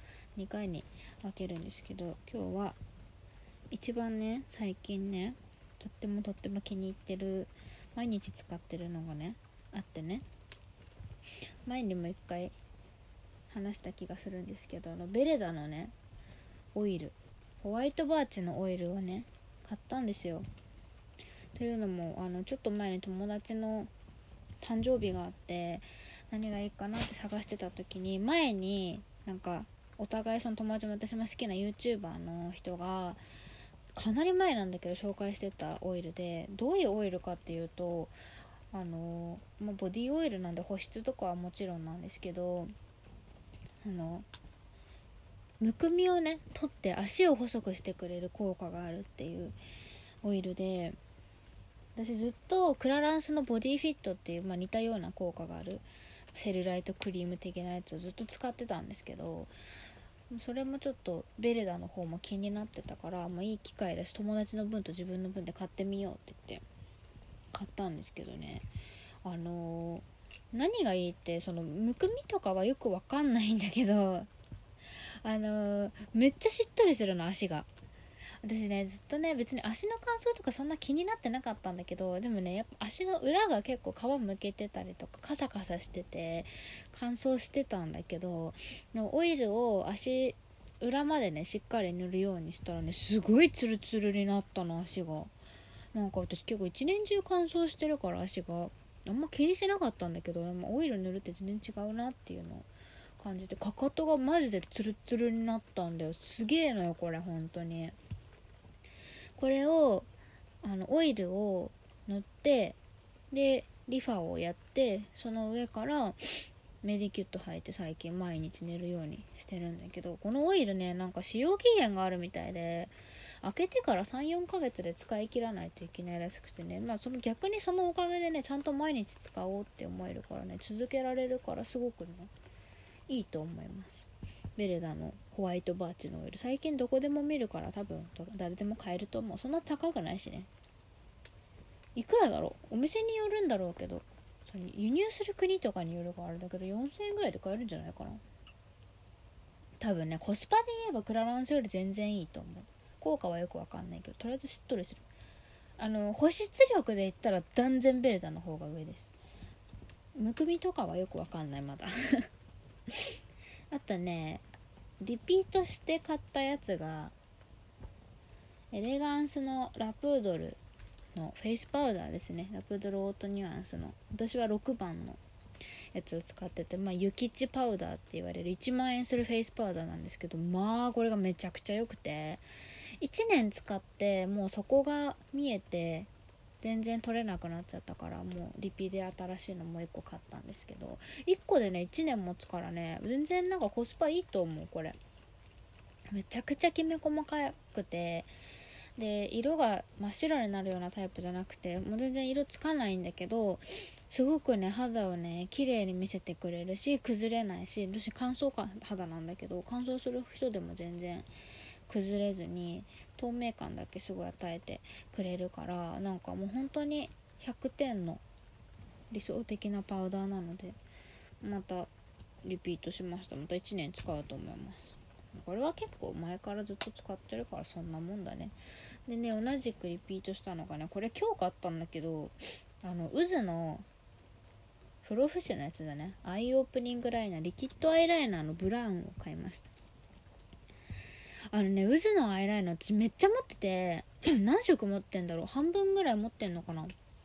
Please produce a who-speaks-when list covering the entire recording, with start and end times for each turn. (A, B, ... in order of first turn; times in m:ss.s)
0:00.4-0:02.8 A
0:03.7-0:10.3 A
0:11.6-0:12.6 A
0:13.5-0:16.0 A
0:16.7-0:20.5 A
0:21.6-0:23.9 A
0:24.6-0:33.2 A
0:34.0-0:38.1 A
0:38.7-0:42.7 A
0:43.8-0:44.3 A
0:45.6-0:49.6 A
0:50.2-0:51.0 A
0:52.0-0:59.5 A
1:00.3-1:06.6 A
1:07.5-1:08.7 A
1:09.2-1:14.3 A
1:15.2-1:17.7 A
1:18.4-1:35.3 A
1:35.9-1:48.0 A
1:49.4-1:50.1 A
1:50.6-1:52.8 A
1:53.3-2:12.3 A
2:13.1-2:20.5 A
2:22.0-2:28.2 A
2:29.8-2:35.0 A
2:35.8-2:39.1 A
2:40.2-2:42.3 A
2:43.7-2:44.4 A
2:45.0-2:47.2 A
2:48.7-2:50.6 A
2:51.2-2:55.2 A
2:55.9-3:02.4 A
3:03.0-3:06.1 A
3:06.6-3:15.0 A
3:16.1-3:18.3 A
3:19.0-3:31.3 A
3:31.9-3:38.2 A
3:39.1-3:40.8 A
3:41.4-3:41.9 A
3:42.4-3:48.6 A
3:49.1-3:53.9 A
3:55.0-3:59.7 A
4:01.5-4:06.9 A